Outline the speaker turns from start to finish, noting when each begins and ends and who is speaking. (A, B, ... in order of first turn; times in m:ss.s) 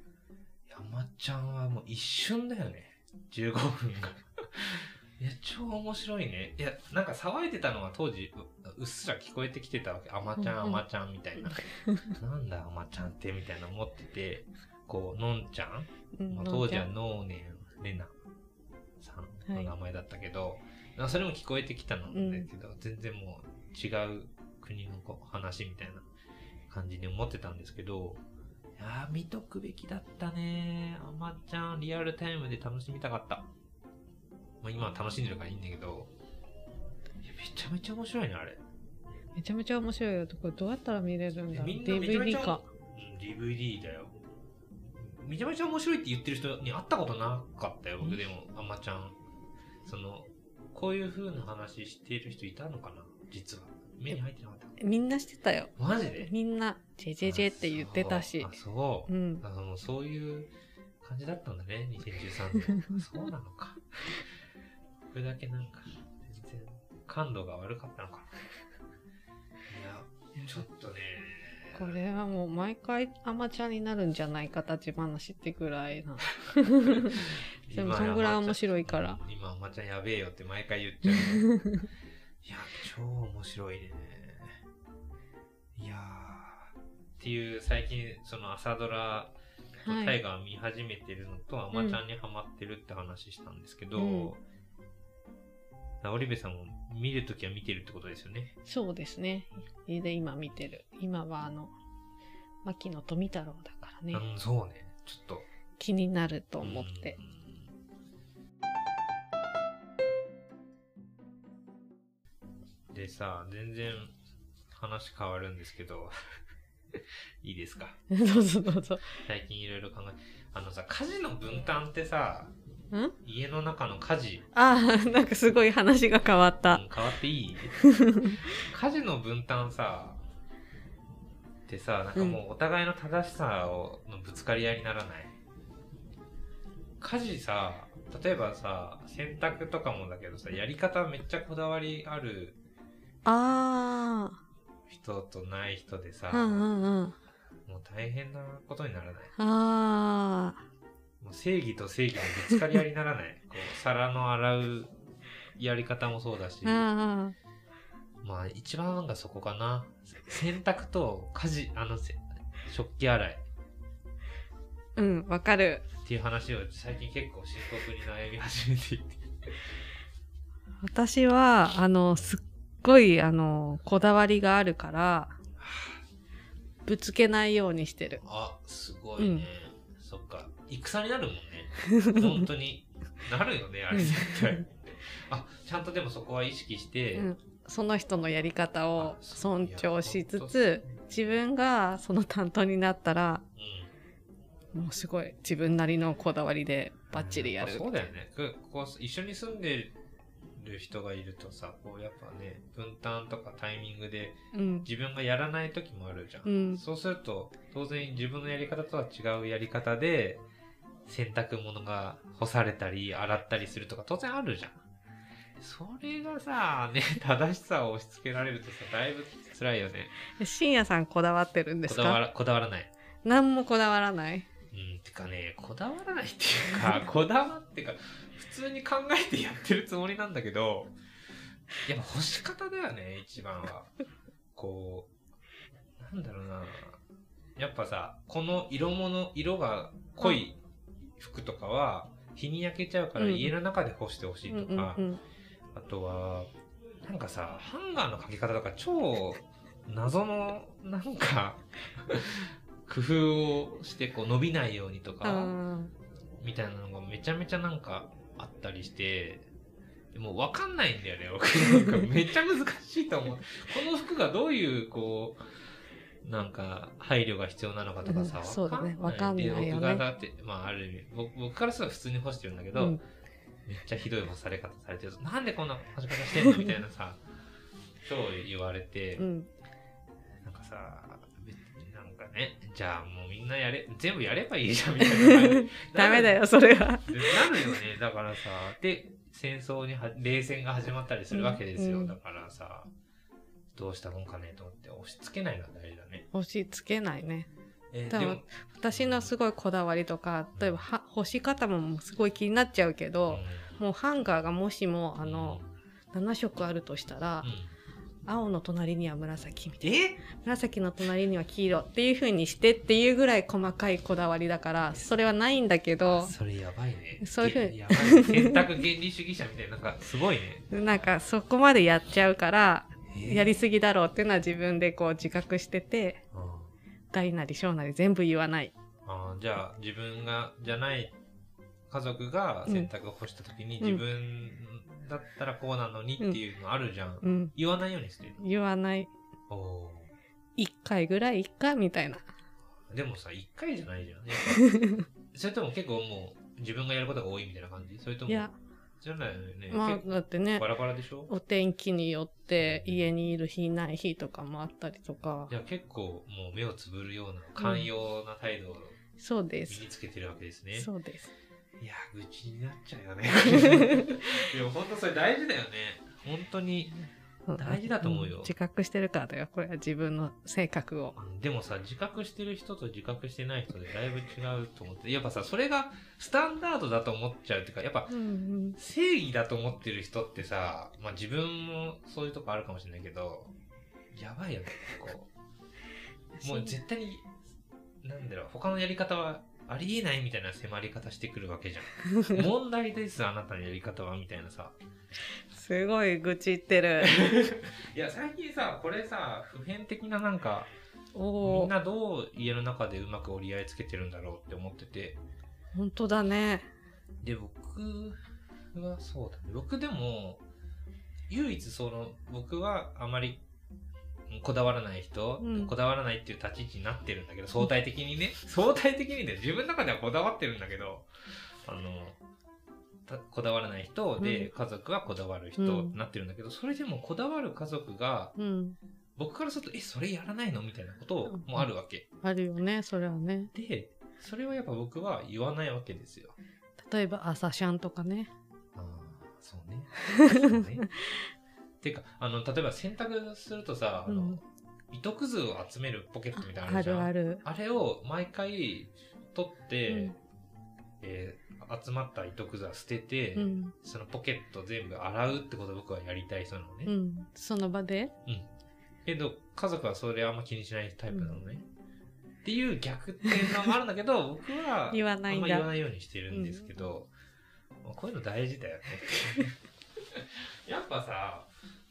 0:00.7-0:18.1 A
0:10.4-0:10.8 B
0:11.5-0:12.1 B
0:16.2-0:16.9 B
0:19.0-0:26.1 A
0:22.1-0:22.5 B
0:26.7-0:28.2 A
0:28.8-0:33.5 A
0:34.6-0:36.1 A
0:37.2-0:38.6 A
0:39.4-0:42.6 B
0:41.5-0:44.1 A
0:45.0-0:49.2 A
0:49.8-0:54.8 A
0:54.8-0:58.5 B
0:55.8-0:56.3 A
0:57.2-1:00.5 A
0:59.1-0:59.4 B
1:01.0-1:04.3 A
1:05.1-1:08.5 A
1:09.7-1:11.9 A
1:11.7-1:19.2 B
1:16.5-1:21.6 A
1:21.2-1:21.9 B
1:22.4-1:24.6 A
1:25.8-1:29.3 A
1:29.8-1:30.2 B
1:29.8-1:34.4 A
1:31.7-1:32.0 B
1:34.0-1:34.3 B
1:36.0-1:38.5 A
1:38.6-1:41.7 B
1:42.6-1:44.2 B
1:44.1-1:45.5 A
1:45.8-1:47.2 B
1:46.6-1:47.7 A
1:52.9-1:54.1 A
1:54.7-1:56.1 A
1:56.9-1:58.0 A
1:58.1-1:59.1 B
1:59.2-2:02.5 A
2:03.2-2:04.4 A
2:04.5-2:06.8 B
2:06.7-2:07.8 A
2:07.8-2:08.4 B
2:08.5-2:10.2 A
2:11.7-2:15.3 A
2:17.0-2:22.6 A
2:23.2-2:24.4 B
2:24.9-2:26.7 A
2:26.3-2:27.1 B
2:27.6-2:29.3 A
2:29.4-2:30.6 B
2:31.2-2:34.9 A
2:35.6-2:36.9 A
2:36.6-2:37.4 B
2:38.2-2:43.4 A
2:45.0-2:45.8 B
2:46.0-2:49.6 A
2:50.8-2:55.4 B
2:52.1-2:52.4 A
2:55.6-2:56.0 A
2:56.8-2:58.2 B
2:58.2-3:07.3 A
2:59.2-2:59.4 B
3:01.9-3:02.4 B
3:03.9-3:04.6 B
3:07.1-3:13.4 B
3:09.0-3:11.0 A
3:13.6-3:13.9 A
3:14.7-3:18.0 B
3:17.1-3:19.9 A
3:20.6-3:30.4 A
3:24.5-3:24.9 B
3:26.4-3:26.8 B
3:31.0-3:34.8 A
3:35.6-3:40.1 A
3:40.4-3:42.2 B
3:41.9-3:42.9 A
3:43.2-3:44.5 B
3:44.7-3:50.9 A
3:51.8-3:53.9 A
3:54.6-3:55.1 A
3:56.0-3:57.0 A
3:57.6-4:00.6 A
4:01.2-4:05.0 A
4:03.2-4:03.5 B
4:04.5-4:05.2 B
4:05.7-4:06.5 A
4:07.0-4:15.5 A
4:15.2-4:15.9 B
4:16.4-4:19.4 A
4:20.1-4:25.4 A
4:26.2-4:33.0 A
4:28.0-4:30.0 B
4:32.7-4:33.0 B
4:33.6-4:37.2 A
4:38.0-4:39.2 A
4:39.2-4:39.5 B
4:40.4-4:46.4 A
4:45.0-4:47.7 B
4:47.0-4:52.9 A
4:51.3-4:52.1 B
4:53.7-4:56.2 A
4:56.3-4:57.5 B
4:57.9-4:59.3 A
4:58.1-5:05.6 B
5:00.6-5:00.8 A
5:03.3-5:03.8 A
5:05.2-5:05.7 A
5:06.1-5:07.5 B
5:07.4-5:07.7 A
5:08.2-5:16.3 B
5:09.8-5:10.2 A
5:16.0-5:20.7 A
5:17.2-5:18.6 B
5:20.7-5:26.2 B
5:23.1-5:23.5 A
5:26.3-5:26.7 A
5:27.1-5:28.7 B
5:29.0-5:31.1 A
5:31.9-5:38.4 A
5:37.2-5:37.5 B
5:38.4-5:39.1 B
5:39.5-5:40.1 A
5:40.6-5:42.2 B
5:42.9-5:48.5 A
5:44.5-5:45.0 B
5:48.3-5:48.5 B
5:49.0-5:51.3 A
5:49.7-5:50.6 B
5:51.3-5:55.5 B
5:52.6-5:53.1 A
5:55.5-5:59.0 A
5:57.6-5:57.9 B
5:59.2-5:59.8 B
5:59.7-6:00.9 A
6:00.7-6:01.3 B
6:01.8-6:06.9 A
6:03.4-6:04.2 B
6:07.5-6:11.2 B
6:07.6-6:08.5 A
6:11.2-6:18.1 A
6:18.1-6:18.8 B
6:18.8-6:23.5 A
6:24.1-6:25.3 A
6:26.4-6:26.7 B
6:26.4-6:27.3 A
6:28.0-6:34.8 A
6:32.1-6:32.4 B
6:35.5-6:37.1 B
6:37.0-6:40.7 A
6:41.1-6:41.7 B
6:41.4-6:45.2 A
6:45.7-6:46.7 B
6:47.2-6:48.2 A
6:48.7-6:50.4 A
6:51.3-6:53.4 A
6:54.3-7:01.1 A
6:55.4-6:55.7 B
7:01.6-7:02.2 A
7:03.1-7:08.3 A
7:04.2-7:04.5 B
7:05.6-7:06.0 B
7:08.4-7:08.8 B
7:09.2-7:12.0 A
7:11.3-7:11.6 B
7:12.2-7:13.5 B
7:13.5-7:16.4 A
7:16.8-7:18.3 B
7:18.7-7:20.9 A
7:20.1-7:20.9 B
7:21.8-7:30.1 A
7:24.1-7:24.4 B
7:26.4-7:27.4 B
7:29.9-7:30.2 B
7:31.0-7:36.9 A
7:33.4-7:33.7 B
7:36.8-7:38.1 B
7:39.0-7:41.6 A
7:42.4-7:47.1 A
7:44.9-7:45.7 B
7:46.3-7:46.7 B
7:47.8-7:51.5 A